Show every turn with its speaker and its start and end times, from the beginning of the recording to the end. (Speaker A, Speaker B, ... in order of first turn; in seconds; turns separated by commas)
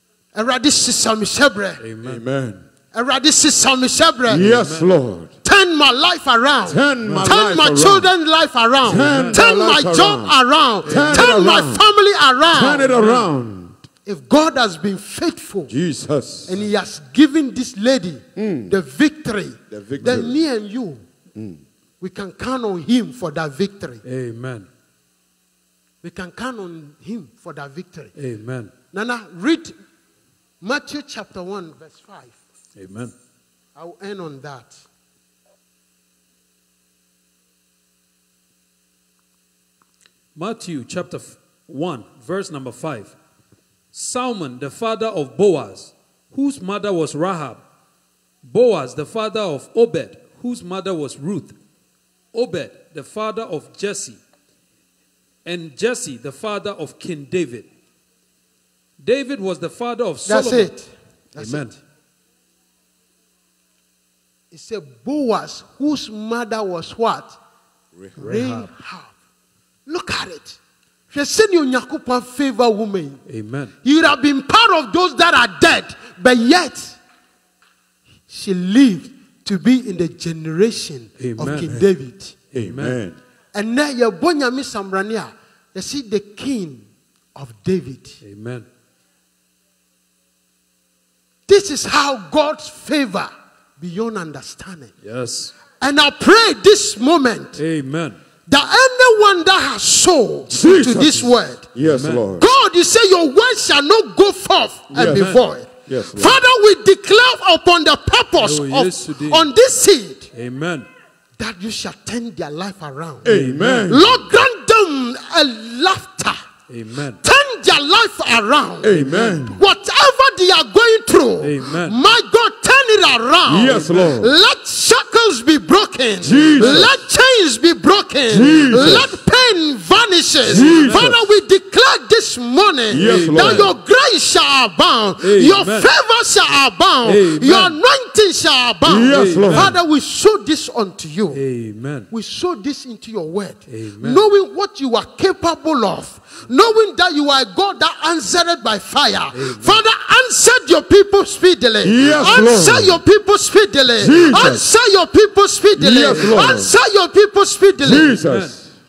Speaker A: 0.3-1.8, Speaker B: 1.8-2.2, Speaker C: 2.0-2.6, Speaker A: 2.9-4.5, Speaker C: 4.3-5.3, Speaker B: 4.3-4.9, Speaker A: 5.4-12.9, Speaker C: 6.7-8.1, Speaker B: 7.0-7.4, Speaker C: 8.8-11.8, Speaker B: 8.8-9.5, Speaker B: 10.8-11.3, Speaker C: 12.5-13.8, Speaker B: 12.9-13.3, Speaker A: 14.1-15.7, Speaker C: 15.7-16.6, Speaker A: 16.5-21.0, Speaker C: 18.4-18.8, Speaker C: 19.7-20.4, Speaker C: 21.4-21.6, Speaker A: 22.0-24.0, Speaker B: 24.0-24.7, Speaker A: 26.0-28.1, Speaker B: 28.1-28.7, Speaker A: 28.9-29.7, Speaker A: 30.6-32.4, Speaker B: 32.8-33.1, Speaker A: 33.8-34.8, Speaker B: 40.3-43.1, Speaker B: 43.9-47.6, Speaker B: 48.4-51.5, Speaker B: 52.3-54.2, Speaker B: 55.4-57.7, Speaker B: 59.0-60.7, Speaker A: 60.2-61.7, Speaker B: 61.3-61.8, Speaker A: 64.5-67.4, Speaker B: 68.2-68.7, Speaker A: 68.2-69.1, Speaker A: 69.8-70.6, Speaker A: 71.1-73.2, Speaker B: 73.2-73.7, Speaker A: 73.8-77.0, Speaker A: 78.3-82.4, Speaker B: 81.2-81.8, Speaker B: 82.5-83.0, Speaker C: 82.5-83.2, Speaker A: 83.5-88.2, Speaker B: 88.2-88.7, Speaker A: 91.5-94.9, Speaker B: 95.0-95.5, Speaker A: 95.8-97.6, Speaker B: 97.5-98.2, Speaker A: 98.5-101.7, Speaker C: 100.5-102.5, Speaker B: 101.8-102.3, Speaker A: 102.3-110.3, Speaker C: 104.9-106.4, Speaker B: 105.0-105.4, Speaker B: 108.4-109.5, Speaker B: 110.3-110.9, Speaker A: 111.4-116.4, Speaker C: 113.2-114.2, Speaker B: 113.2-113.9, Speaker B: 116.7-117.2, Speaker A: 117.2-141.4, Speaker C: 118.8-119.6, Speaker B: 119.0-119.4, Speaker B: 121.4-122.0, Speaker C: 123.5-124.3, Speaker B: 123.7-124.1, Speaker C: 126.2-126.9, Speaker B: 126.5-126.9, Speaker C: 128.3-129.2, Speaker B: 130.4-131.1, Speaker C: 130.5-131.2, Speaker C: 132.9-133.7, Speaker B: 132.9-133.7, Speaker B: 135.2-135.9, Speaker B: 137.0-137.8, Speaker C: 138.8-139.8, Speaker B: 139.1-139.7, Speaker B: 141.3-142.1, Speaker A: 142.1-158.2, Speaker B: 143.7-144.2, Speaker B: 149.3-149.8, Speaker C: 151.8-153.0, Speaker C: 153.9-154.7, Speaker C: 155.8-156.7, Speaker C: 157.8-158.7, Speaker B: 157.9-158.6